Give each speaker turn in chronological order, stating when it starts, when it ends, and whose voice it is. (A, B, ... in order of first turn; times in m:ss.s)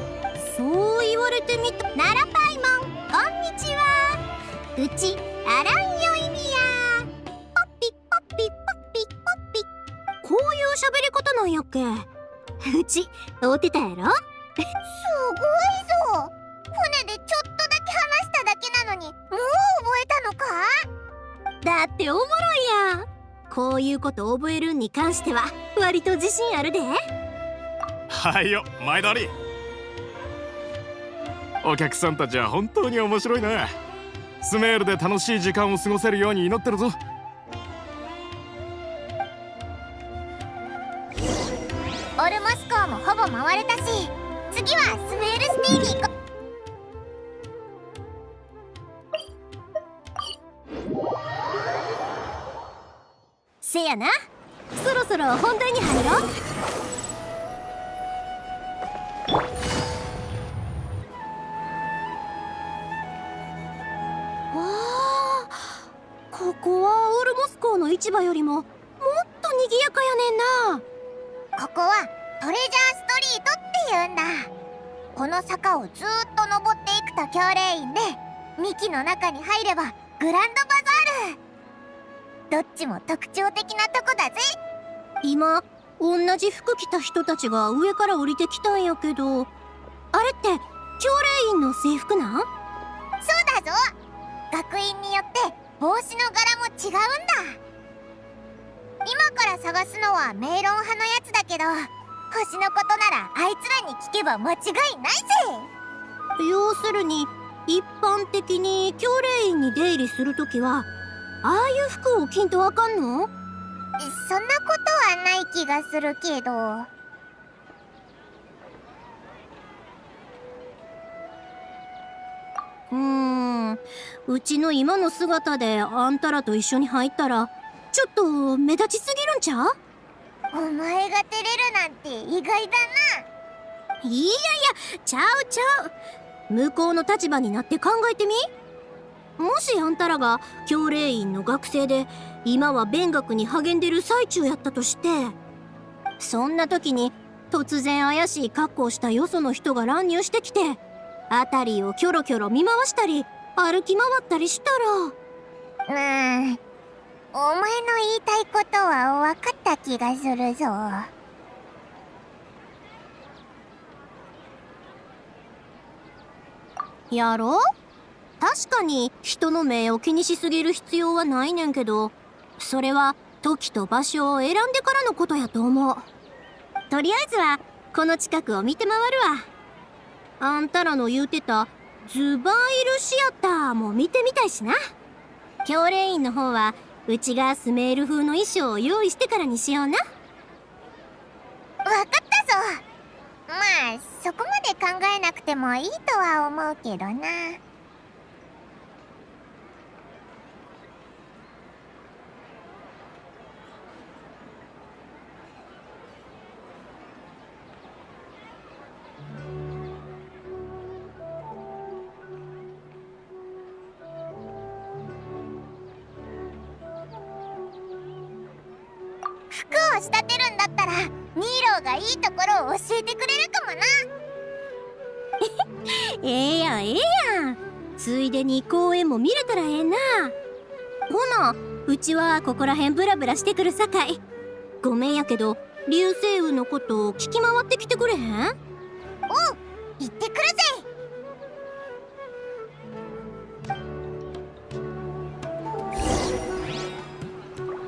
0:00.4-0:04.2 A
0:04.8-0:07.0 A
0:07.6-0:09.6 A
0:10.2-0:12.1 A
0:12.6-0:14.1 A
0:14.8-0:20.8 B
0:21.6-0:26.9 A
0:28.1-0:29.3 C
0:31.6-0:33.7 C
0:34.4-0:36.9 C
0:42.2-0:46.1 B
0:53.6-0:54.1 A
0:54.8-0:56.2 A
1:04.5-1:05.7 A
1:06.3-1:10.8 A
1:11.6-1:14.5 B
1:15.1-1:21.4 B
1:22.5-1:24.5 B
1:25.2-1:29.5 A
1:30.1-1:32.5 A
1:33.2-1:33.9 B
1:34.5-1:37.6 B
1:39.0-1:45.7 B
1:46.4-1:50.9 A
1:51.4-1:53.3 A
1:54.0-1:56.9 B
2:02.9-2:09.7 A
2:10.5-2:13.2 B
2:14.0-2:15.9 A
2:16.5-2:18.4 A
2:19.4-2:25.4 A
2:26.2-2:35.1 A
2:35.9-2:36.6 B
2:37.3-2:41.1 B
2:47.1-2:47.6 A
2:48.4-2:56.0 A
2:56.9-2:59.5 A
3:00.4-3:04.8 A
3:05.6-3:10.0 A
3:11.8-3:12.8 B
3:13.5-3:17.6 B
3:39.5-3:44.0 B
3:45.4-3:50.3 A
3:51.1-3:54.2 A
3:54.8-3:58.5 A
3:59.3-4:00.8 B